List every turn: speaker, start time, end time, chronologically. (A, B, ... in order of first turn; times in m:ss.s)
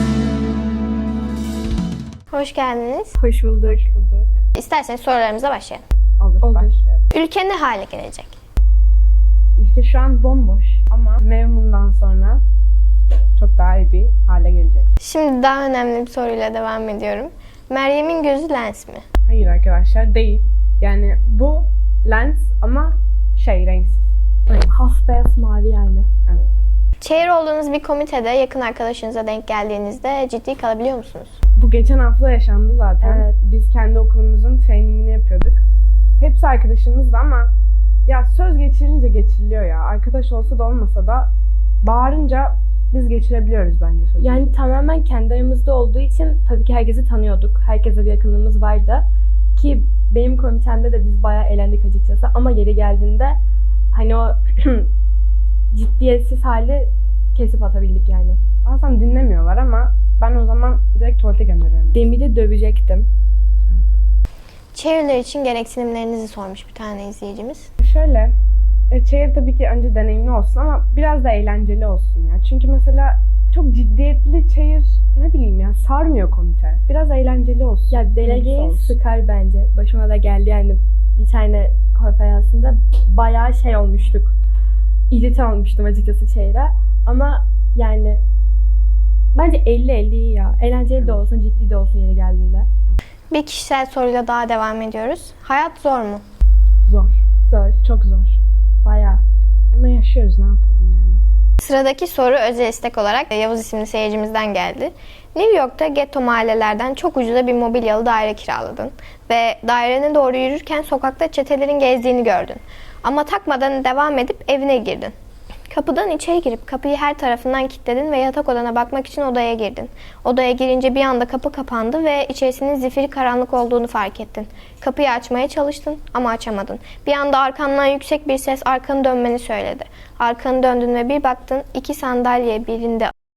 0:02.3-0:03.2 A
0:03.2-0:03.9 B
0:03.6-0:04.3 C
0:04.6-0:05.8 A
0:06.2-0:07.0 C
0:06.4-0:06.7 B
0:07.1-0:08.4 A
0:09.6-0:12.4 C
0:13.3-0:14.9 C
0:15.0-0:19.0 A
0:19.2-0:24.7 C
0:24.6-0:26.1 B
0:27.0-0:31.4 A
0:31.6-0:35.6 C
0:33.0-0:33.4 B
0:36.2-0:37.5 C
0:38.1-0:41.3 C
0:41.8-0:44.5 C
0:44.2-0:53.4 B
0:53.9-0:54.9 B
0:55.7-0:58.4 B
0:58.6-1:02.1 C
1:01.9-1:03.1 B
1:04.7-1:07.7 A
1:07.8-1:08.3 C
1:08.9-1:19.0 C
1:17.9-1:24.3 B
1:25.1-1:28.2 B
1:29.3-1:32.7 B
1:33.3-1:36.2 A
1:36.8-1:37.2 C
1:37.5-1:37.8 B
1:37.8-1:38.4 C
1:38.8-1:39.2 B
1:39.7-1:41.2 C
1:41.6-1:55.1 A
1:55.7-2:13.1 A